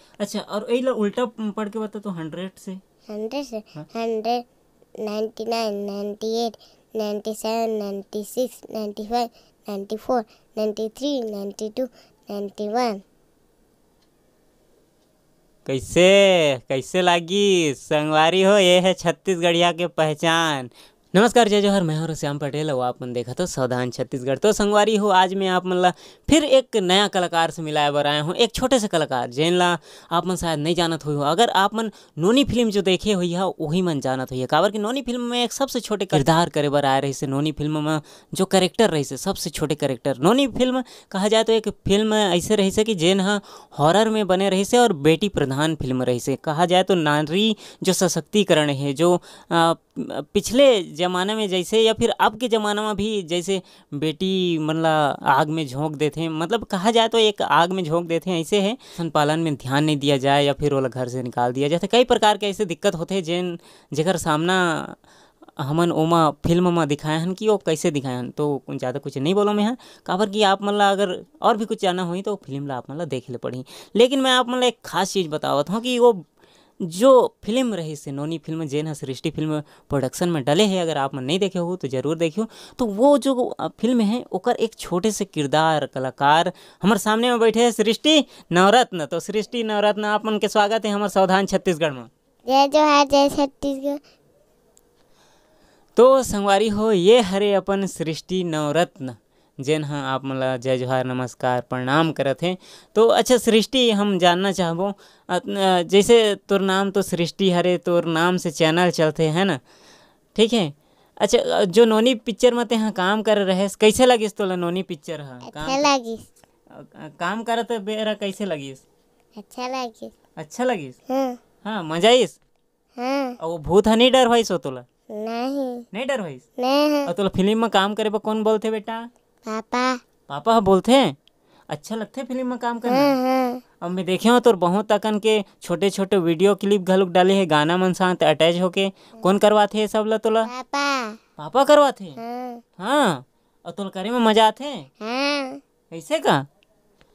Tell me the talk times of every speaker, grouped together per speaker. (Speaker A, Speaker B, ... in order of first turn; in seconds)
Speaker A: 0.2-2.8, 15.7-65.0, 65.6-76.2, 76.8-92.1, 96.0-109.6, 110.3-115.9, 116.7-118.8, 120.4-121.0, 121.6-122.4, 123.4-124.8, 125.9-126.4, 127.1-129.1, 130.3-131.2, 131.7-133.2, 133.8-140.5, 141.4-142.2, 142.8-144.9, 145.9-146.5
Speaker B: 3.1-4.4, 5.0-13.0, 92.5-94.0, 115.4-116.3, 119.4-120.1, 121.1-121.4, 123.0-123.4, 125.1-125.8, 126.6-127.1, 129.5-130.0, 132.9-133.6, 140.5-141.2, 142.2-142.6, 145.0-145.6